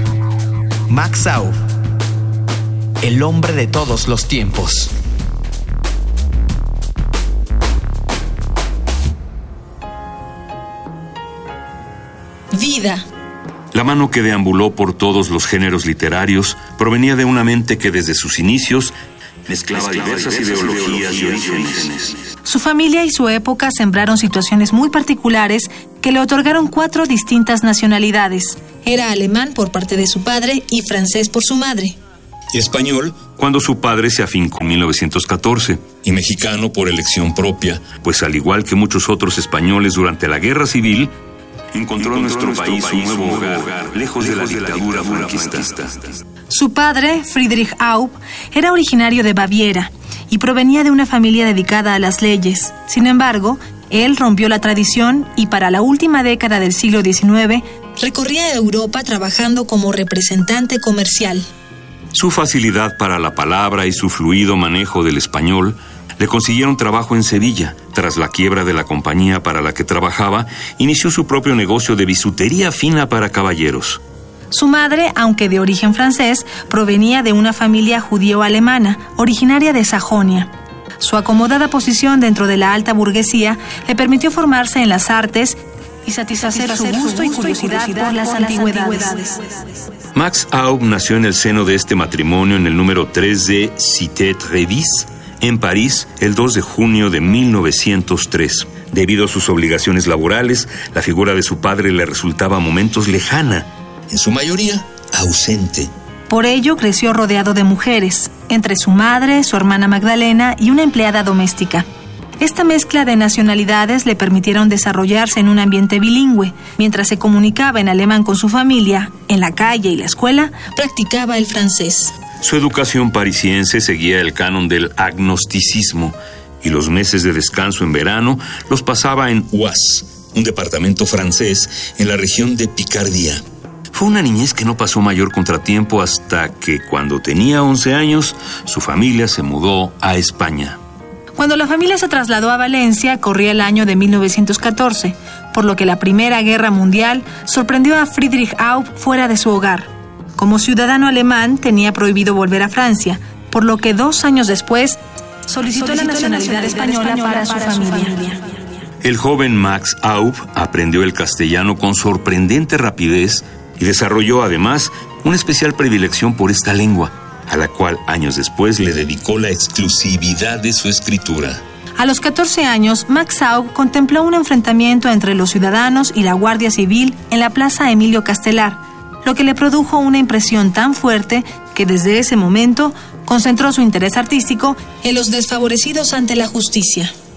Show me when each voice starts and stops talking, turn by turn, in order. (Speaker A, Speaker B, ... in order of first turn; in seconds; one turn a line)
Speaker A: 0.9-1.6
Speaker A: 3.0-4.9
Speaker B: 12.5-13.0
Speaker C: 13.7-18.9
Speaker C: 19.5-22.2
Speaker B: 22.4-32.0
Speaker C: 32.5-41.1
Speaker C: 41.7-46.1
Speaker B: 46.5-61.5
Speaker C: 62.1-74.0
Speaker B: 74.5-89.5
Speaker C: 90.1-105.9
Speaker B: 106.3-111.9
Speaker B: 112.4-122.1
Speaker C: 122.4-133.4
Speaker C: 133.9-140.8
Speaker B: 141.3-158.4
Speaker C: 159.0-171.6
Speaker B: 172.0-187.1